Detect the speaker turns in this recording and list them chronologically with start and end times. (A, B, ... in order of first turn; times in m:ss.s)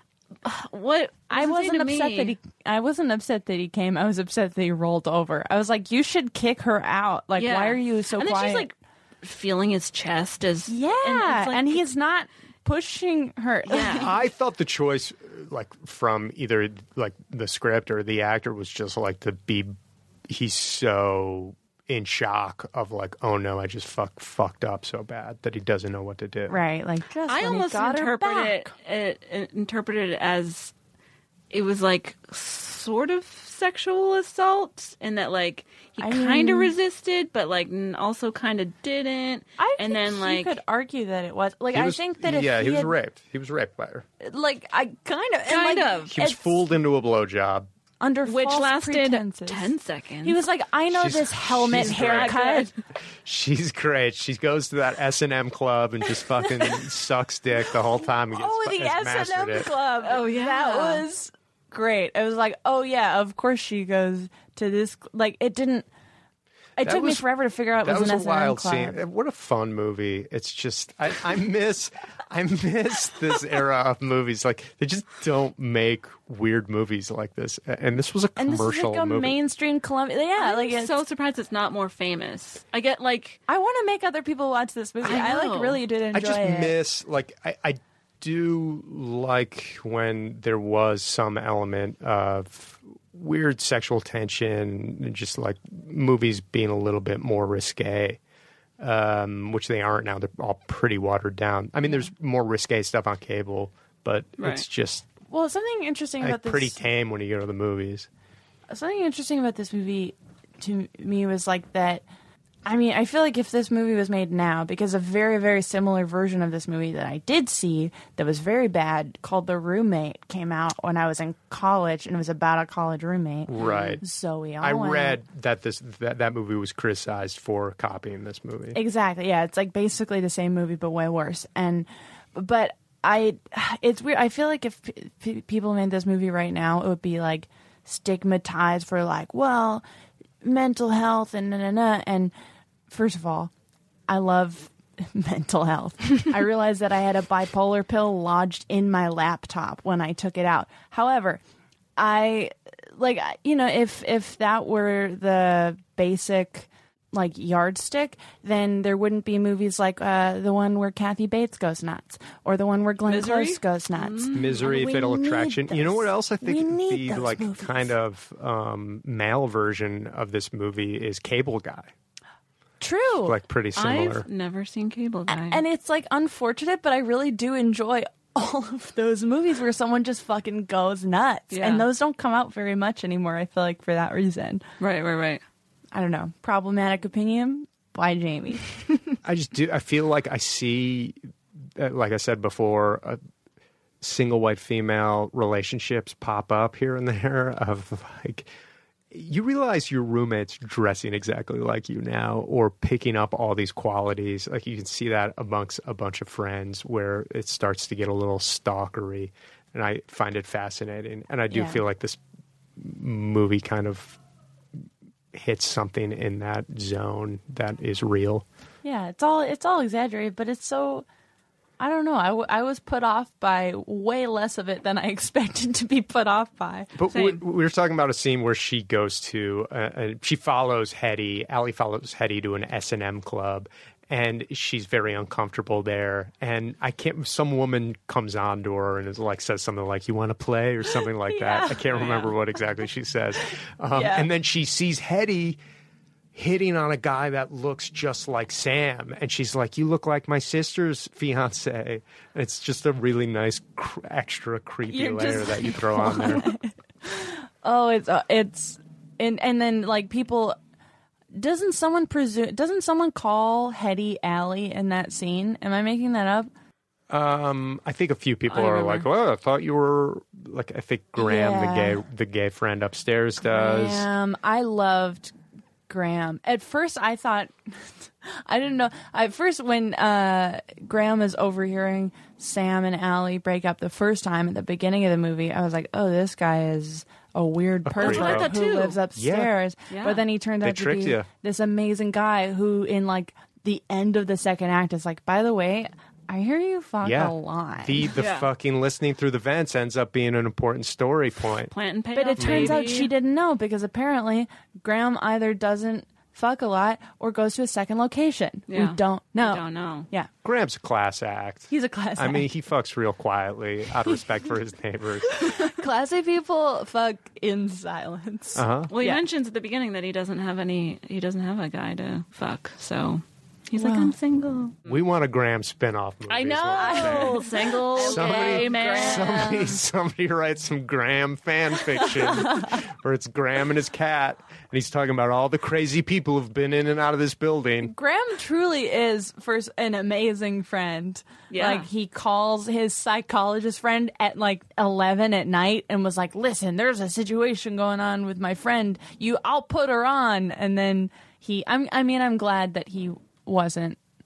0:00.4-0:02.3 A
0:01.3-0:08.7 B
0:07.4-0:11.8 A
0:10.7-0:14.1 B
0:13.7-0:14.2 A
0:13.9-0:19.7 C
0:20.3-0:26.6 C
0:26.5-0:28.7 B
0:27.3-0:30.7 A
0:31.5-0:40.6 A
0:36.0-0:36.7 B
0:39.6-0:42.9 B
0:41.7-0:44.0 C
0:44.2-0:46.5 B
0:45.5-0:46.2 A
0:46.1-0:47.7 C
0:48.0-0:49.7 B
0:48.2-0:50.4 A
0:50.2-0:52.7 B
0:50.9-0:52.4 C
0:51.7-0:52.7 A
0:53.2-0:59.7 C
0:56.4-0:56.8 B
0:57.7-1:05.9 B
1:00.0-1:01.0 A
1:06.8-1:09.0 B
1:06.8-1:07.3 C
1:07.8-1:19.4 C
1:18.4-1:21.0 B
1:20.4-1:23.4 A
1:23.5-1:26.8 B
1:25.0-1:25.8 A
1:26.1-1:38.2 C
1:38.8-1:45.1 C
1:44.4-1:44.6 A
1:45.3-1:46.8 B
1:46.2-1:48.1 C
1:48.7-1:52.0 B
1:52.6-2:05.2 B
2:03.5-2:04.0 C
2:03.6-2:04.0 A
2:04.6-2:08.8 C
2:08.7-2:19.8 B
2:20.4-2:22.3 B
2:22.9-2:23.5 B
2:24.1-2:31.4 B
2:32.0-2:47.9 B
2:43.0-2:44.6 A
2:44.3-2:51.9 C
2:52.8-2:53.4 B
2:53.2-2:54.2 C
2:53.8-2:55.6 A
2:55.3-3:04.6 B
3:01.5-3:01.9 A
3:04.8-3:05.4 A
3:05.9-3:08.6 B
3:09.2-3:11.2 C
3:11.8-3:13.2 C
3:14.0-3:18.5 C
3:19.1-3:32.2 C
3:31.5-3:31.8 B
3:32.8-3:34.2 C
3:35.3-3:38.4 C
3:38.8-3:41.0 B
3:41.8-3:46.9 B
3:46.9-4:05.6 C
3:47.1-3:47.4 A
4:00.9-4:01.8 B
4:01.9-4:02.3 A
4:03.9-4:04.3 B
4:06.3-4:16.5 C
4:14.8-4:20.6 B
4:21.3-4:26.5 B
4:27.1-4:34.1 C
4:28.5-4:29.0 A
4:31.2-4:32.0 B
4:33.4-4:35.3 B
4:35.9-4:58.1 B
4:47.8-4:48.6 C
4:48.0-4:49.0 A
4:49.2-4:49.5 C
4:49.9-4:50.2 A
4:50.6-4:51.3 C
4:57.0-5:01.7 C
4:58.2-4:58.5 A
5:01.7-5:03.1 A
5:02.1-5:10.3 B
5:02.4-5:02.9 C
5:08.7-5:10.1 A
5:10.4-5:15.4 C
5:11.7-5:12.5 B
5:15.4-5:19.2 B
5:18.6-5:18.9 C
5:18.9-5:24.8 A
5:23.8-5:24.1 B
5:24.8-5:37.9 C
5:26.3-5:29.7 A
5:26.7-5:29.7 B
5:32.0-5:32.7 B
5:37.8-5:54.0 B
5:41.5-5:41.9 A